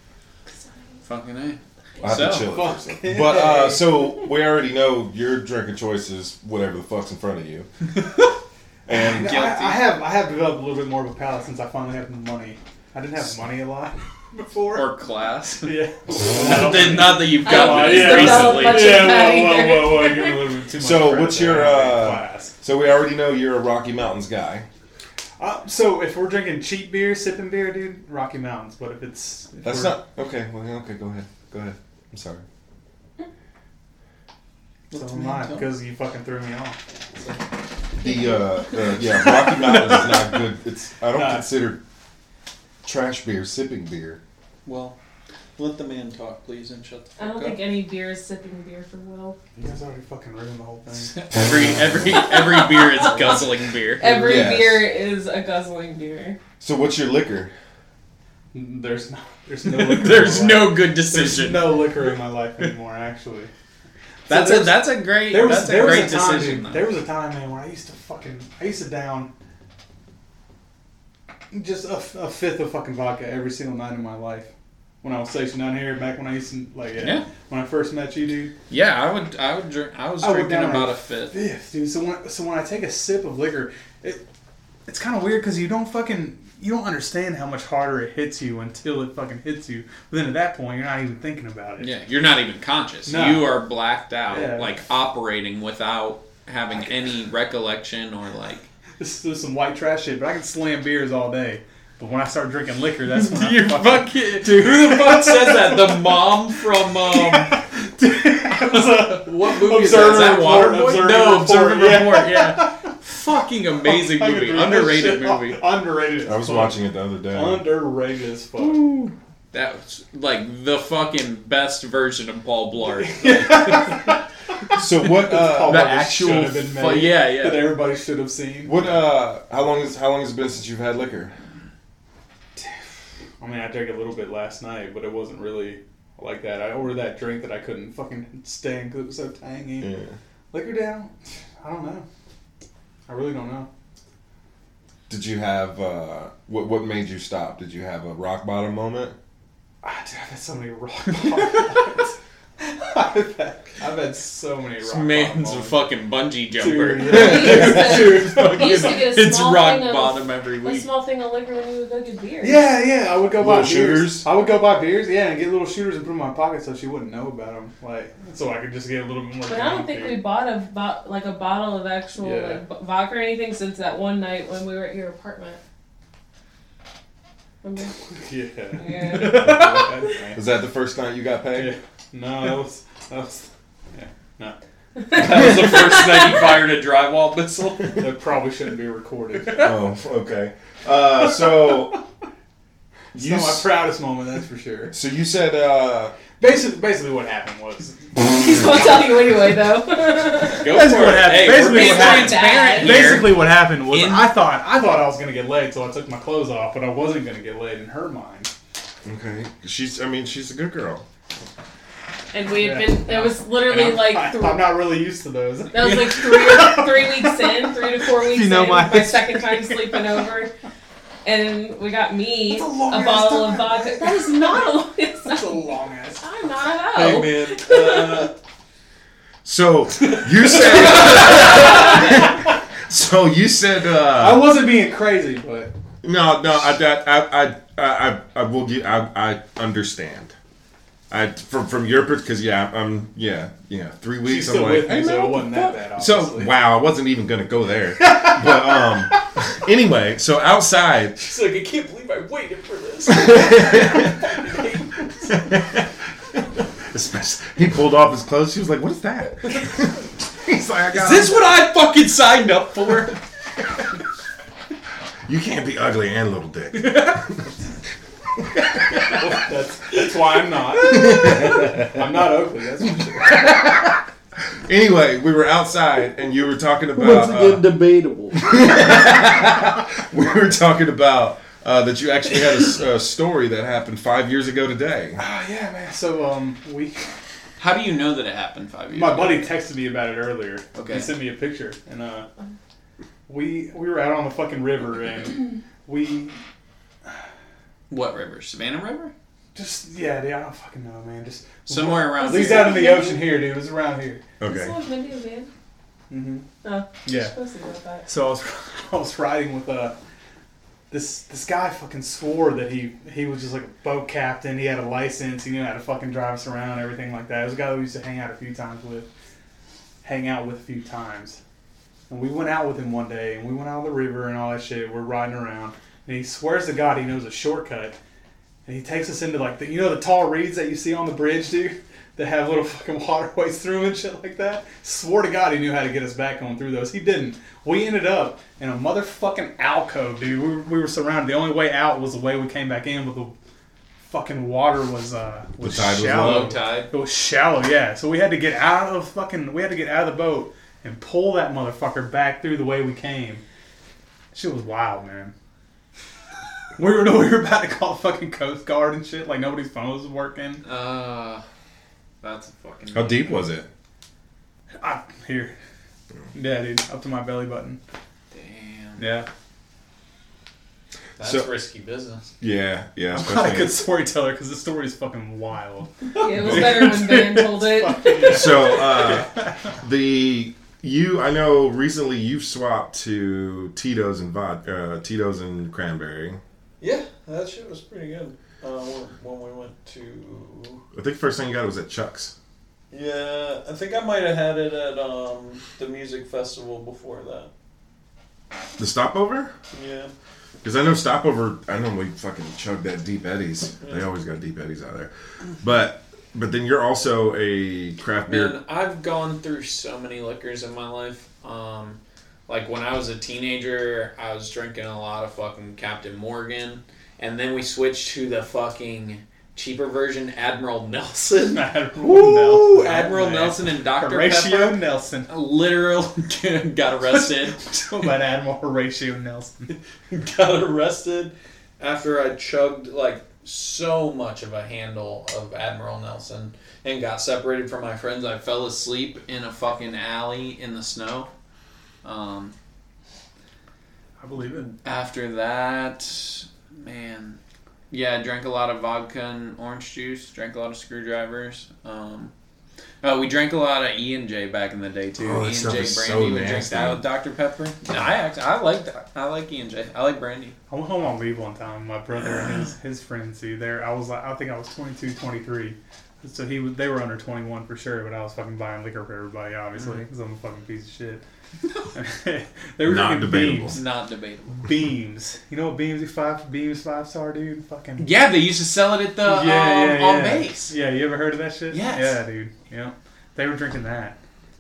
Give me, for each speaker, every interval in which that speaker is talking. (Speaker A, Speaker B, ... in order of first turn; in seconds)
Speaker A: 0.5-1.0, 17.4-20.4, 38.0-38.8, 47.2-49.4, 52.1-53.3, 54.0-56.4, 157.1-162.7, 169.5-175.6, 177.6-177.9, 178.8-179.6, 185.1-186.2, 198.2-203.2, 212.3-214.8, 215.7-220.5, 221.2-225.7, 226.2-228.3, 302.1-303.4, 304.4-305.5, 306.6-308.1, 376.1-378.6
Speaker B: 1.0-2.5, 8.9-9.9, 14.7-19.2, 34.9-35.7, 44.6-45.0, 45.6-47.6, 51.1-54.3, 59.6-61.9, 64.3-66.9, 77.0-77.2, 78.7-81.4, 91.8-98.7, 103.1-107.6, 108.5-115.6, 119.5-124.2, 125.6-127.8, 154.8-160.9, 185.1-188.1, 200.5-204.3, 226.9-228.3, 230.0-231.5, 251.2-255.5, 260.9-263.2, 276.9-278.4, 287.6-289.5, 290.8-291.1, 297.9-299.1, 301.7-302.9, 346.0-346.9, 360.6-361.4, 362.2-363.5, 368.3-369.1, 371.2-372.3, 386.8-390.8, 392.9-397.5, 399.7-400.1, 408.3-427.7, 430.1-441.3, 442.0-442.5, 444.7-447.4, 447.9-452.3, 453.0-460.6, 473.7-474.6, 478.0-480.7, 481.7-482.2
Speaker C: 2.0-7.7, 8.9-9.3, 20.8-24.6, 29.6-32.4, 38.0-41.8, 42.8-44.2, 54.1-54.9, 56.6-57.5, 116.2-117.7, 124.7-125.9, 128.6-131.3, 139.8-140.1, 145.1-149.2, 157.1-158.2, 163.4-164.2, 179.4-179.8, 180.3-181.7, 189.5-192.0, 193.1-193.7, 194.9-196.2, 209.0-211.0, 229.4-234.5, 236.0-240.3, 241.1-251.2, 253.2-254.2, 255.3-255.9, 256.6-261.4, 265.2-267.4, 268.5-269.2, 270.9-271.9, 274.6-277.7, 278.3-285.2, 304.4-304.7, 345.6-346.5, 362.9-363.7, 371.2-371.5, 372.4-373.8, 376.4-376.9, 378.2-386.4, 390.9-392.3, 398.8-399.5, 400.6-408.6, 455.2-457.0, 472.8-473.8
Speaker D: 2.5-4.0, 8.9-14.9, 15.6-22.5, 25.4-30.0, 34.9-36.8, 41.1-41.5, 49.5-51.2, 58.5-63.5, 64.3-69.3, 71.5-74.5, 75.0-78.5, 80.2-84.2, 84.9-91.9, 93.1-93.6, 94.3-94.7, 99.0-106.3, 107.0-112.9, 113.8-116.8, 117.3-118.9, 122.8-124.2, 125.0-128.8, 132.6-132.8, 133.4-139.9, 140.5-142.0, 143.1-143.7, 149.8-155.8, 156.6-159.0, 162.4-170.2, 172.2-172.6, 178.1-180.4, 181.5-184.6, 188.0-189.7, 191.2-191.8, 193.1-194.9, 196.4-199.3, 200.6-208.5, 212.6-220.2, 222.4-226.2, 234.2-235.7, 244.2-246.5, 248.0-248.8, 269.1-273.6, 285.2-287.1, 288.9-292.3, 293.3-296.4, 299.5-304.2, 306.1-306.4, 307.0-307.3, 308.1-309.9, 310.9-319.1, 320.0-321.4, 322.1-328.0, 328.6-343.3, 344.1-353.4, 354.3-355.3, 356.8-360.6, 364.8-365.5, 366.3-367.8, 369.0-369.3, 373.1-379.5, 421.4-425.3, 427.1-429.7, 444.2-444.7, 460.7-471.2, 471.9-473.8, 474.6-478.1, 479.2-484.2